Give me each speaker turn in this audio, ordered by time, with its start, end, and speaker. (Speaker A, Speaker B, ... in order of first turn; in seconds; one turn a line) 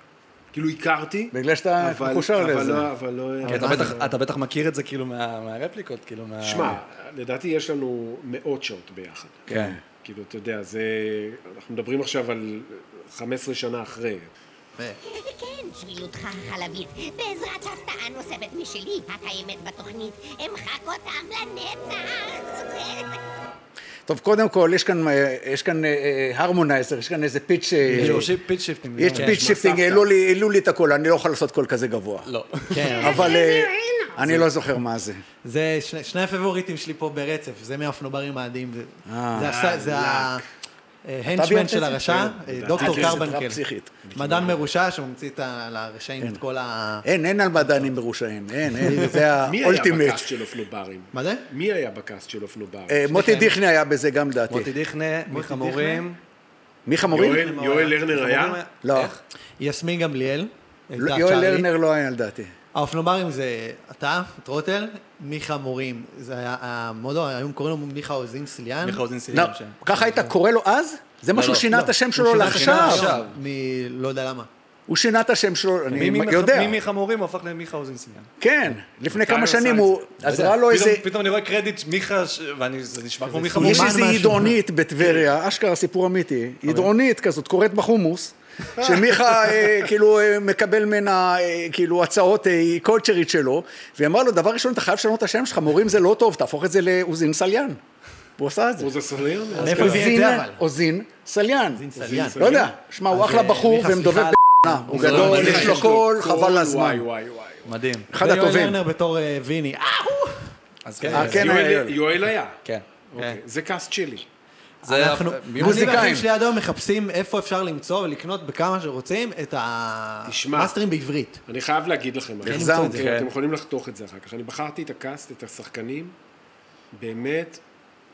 Speaker A: 0.5-4.1
Speaker B: 1.3-2.9
Speaker C: 3.4-4.0
Speaker D: 3.5-6.8
Speaker A: 6.4-9.4
Speaker B: 9.5-9.8
Speaker D: 9.5-9.8
Speaker A: 10.0-14.3
Speaker E: 15.1-23.2
Speaker B: 24.1-28.3
Speaker C: 27.9-28.3
Speaker D: 27.9-29.9
Speaker B: 29.0-32.3
Speaker C: 29.1-29.7
Speaker D: 32.2-33.0
Speaker C: 32.7-33.3
Speaker B: 33.0-35.2
Speaker D: 34.2-34.5
Speaker C: 35.4-40.4
Speaker B: 39.0-39.6
Speaker A: 39.5-40.4
Speaker C: 41.0-43.6
Speaker B: 41.3-44.5
Speaker A: 42.7-43.2
Speaker C: 44.1-47.0
Speaker B: 47.0-50.3
Speaker C: 47.6-47.9
Speaker C: 48.8-49.1
Speaker A: 49.4-53.2
Speaker C: 51.1-51.4
Speaker B: 52.9-54.7
Speaker C: 53.1-53.5
Speaker D: 54.5-56.2
Speaker C: 55.3-56.0
Speaker B: 56.9-57.5
Speaker A: 57.1-58.6
Speaker C: 57.2-58.0
Speaker D: 58.1-59.2
Speaker B: 58.8-59.1
Speaker C: 59.6-61.7
Speaker B: 61.0-62.5
Speaker C: 62.7-69.0
Speaker D: 68.8-70.2
Speaker B: 69.3-73.2
Speaker D: 71.3-71.7
Speaker C: 71.7-74.5
Speaker D: 72.3-73.3
Speaker B: 74.9-76.8
Speaker D: 75.9-78.3
Speaker B: 78.4-81.1
Speaker D: 79.1-84.0
Speaker C: 83.3-84.5
Speaker B: 83.5-97.8
Speaker B: 98.4-98.9
Speaker A: 98.8-100.1
Speaker C: 99.6-100.6
Speaker B: 99.6-107.1
Speaker C: 101.7-102.5
Speaker A: 101.9-102.7
Speaker C: 103.1-105.7
Speaker D: 104.9-105.9
Speaker A: 105.0-107.7
Speaker D: 107.6-108.1
Speaker B: 108.1-108.8
Speaker C: 108.2-111.2
Speaker D: 110.8-111.9
Speaker B: 111.1-112.0
Speaker A: 111.1-112.6
Speaker A: 113.1-114.2
Speaker C: 114.8-121.4
Speaker D: 114.8-116.1
Speaker B: 115.5-116.3
Speaker A: 120.3-120.8
Speaker A: 121.5-126.2
Speaker B: 122.4-123.0
Speaker C: 122.5-123.1
Speaker D: 123.0-123.3
Speaker A: 126.9-127.6